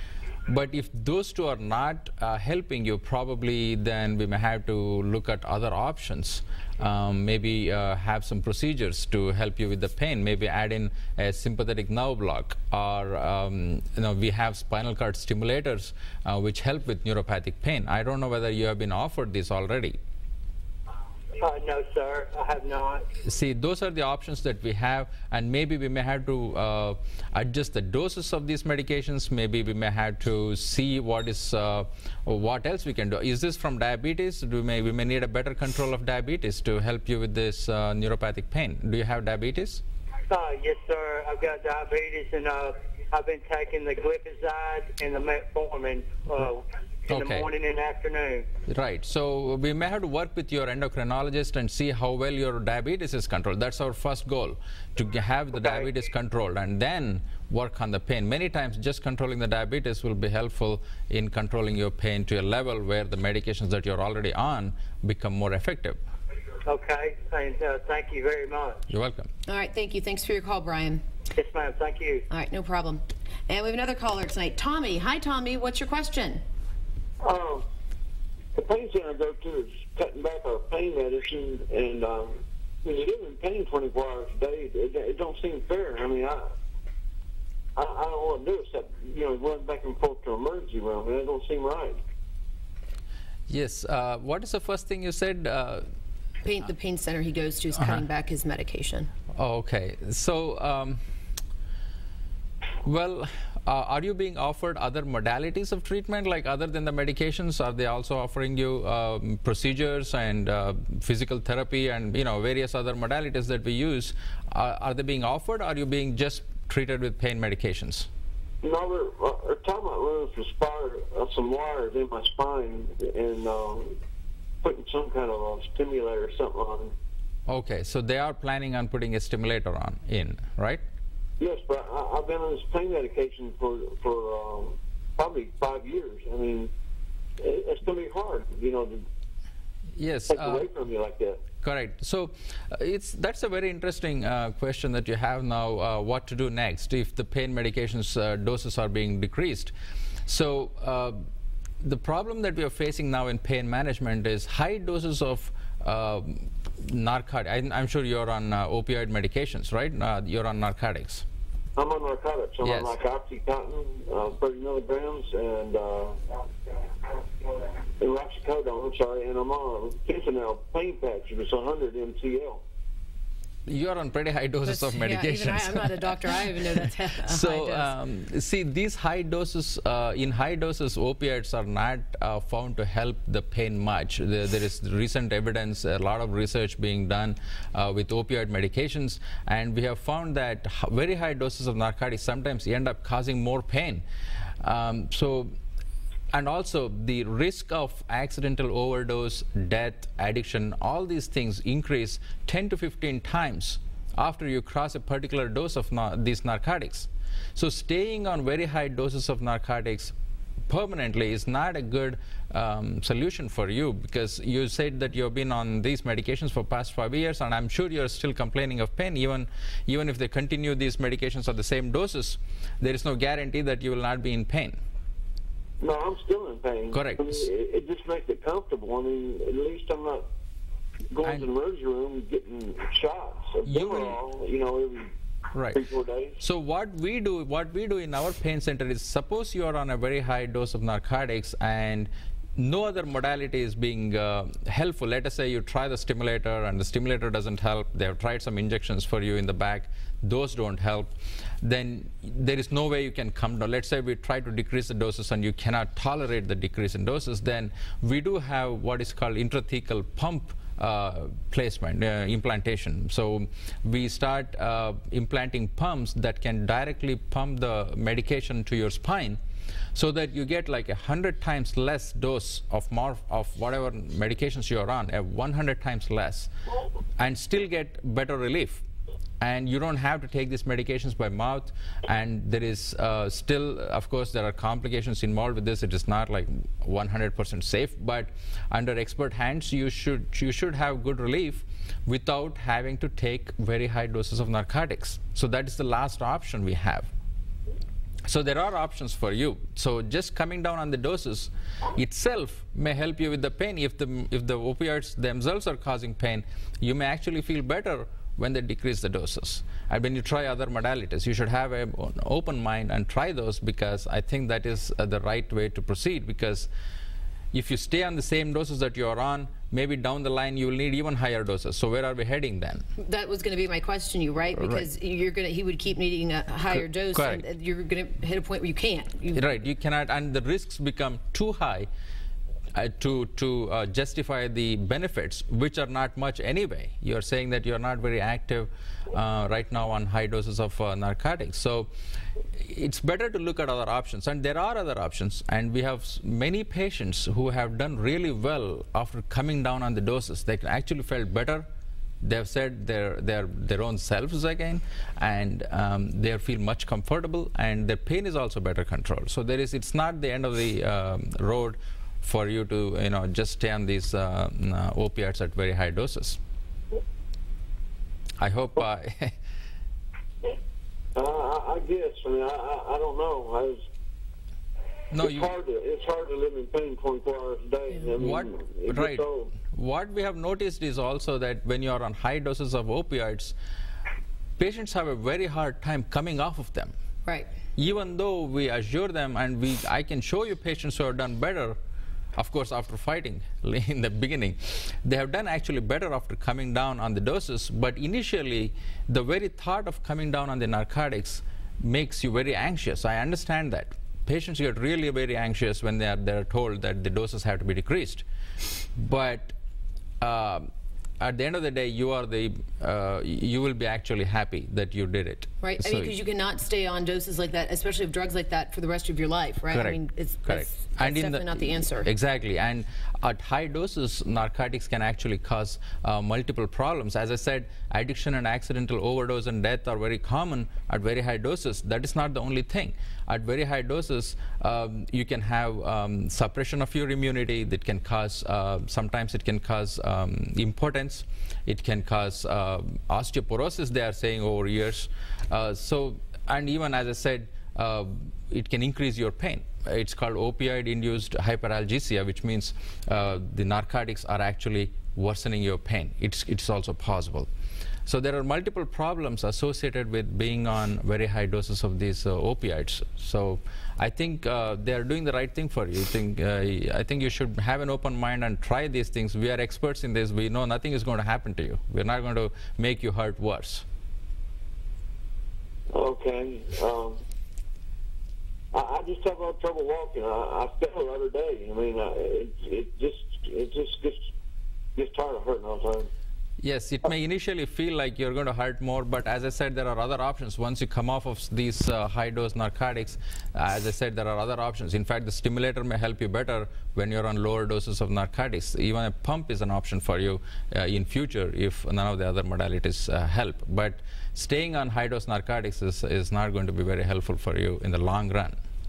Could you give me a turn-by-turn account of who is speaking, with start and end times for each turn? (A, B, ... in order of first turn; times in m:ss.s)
0:00.5-0:20.0 A
0:21.4-0:23.0 B
0:23.2-0:39.8 A
0:40.3-0:48.4 B
0:47.1-0:47.5 A
0:48.7-1:06.0 A
1:06.6-1:08.8 B
1:08.9-1:09.3 A
1:09.4-1:11.0 C
1:11.3-1:12.3 B
1:12.3-1:16.4 C
1:17.2-1:17.6 D
1:18.5-1:26.5 D
1:27.8-1:32.0 D
1:33.5-1:35.8 A
1:36.4-1:39.1 C
1:39.4-1:41.0 A
1:42.8-1:58.1 A
1:58.6-2:04.0 D
2:04.6-2:06.9 D
2:07.5-2:10.8 A
2:11.4-2:16.7 D
2:17.4-2:19.0 D
2:20.0-2:20.7 A
2:20.3-2:21.4 D
2:21.6-2:29.7 A
2:30.3-2:31.2 A
2:31.8-2:41.2 A
2:41.8-2:46.2 D
2:42.6-2:43.0 A
2:48.0-2:52.6 D
2:53.6-3:14.0 A
2:54.6-2:57.9 C
3:14.6-3:15.5 A
3:16.3-3:30.1 A
3:30.7-3:44.8 A
3:45.8-3:50.2 D
3:46.9-3:47.4 A
3:51.1-3:55.1 D
3:53.7-3:54.2 A
3:55.5-3:55.8 A
3:55.7-3:56.4 D
3:56.4-4:11.1 A
4:11.6-4:29.4 A
4:29.9-4:36.5 A
4:37.2-4:38.8 A
4:39.4-4:57.1 A
4:58.2-5:16.7 A
5:17.5-5:22.8 A
5:23.0-5:29.4 C
5:24.5-5:24.9 A
5:27.1-5:27.4 A
5:29.3-5:31.9 A
5:32.7-5:41.9 A
5:42.6-5:51.7 A
5:52.2-6:06.4 A
6:08.4-6:09.3 A
6:11.1-6:13.8 D
6:15.1-6:15.5 A
6:15.2-6:19.5 D
6:18.2-6:23.6 A
6:24.6-6:26.9 A
6:27.8-6:31.8 A
6:32.4-6:48.2 A
6:49.0-6:49.5 A
6:50.2-6:50.7 A
6:51.2-6:56.2 A
6:55.6-7:02.1 C
6:59.7-7:37.5 A
7:38.0-7:53.8 A
7:55.9-7:57.2 D
7:58.7-8:04.3 D
8:04.9-8:06.1 D
8:06.6-8:28.6 A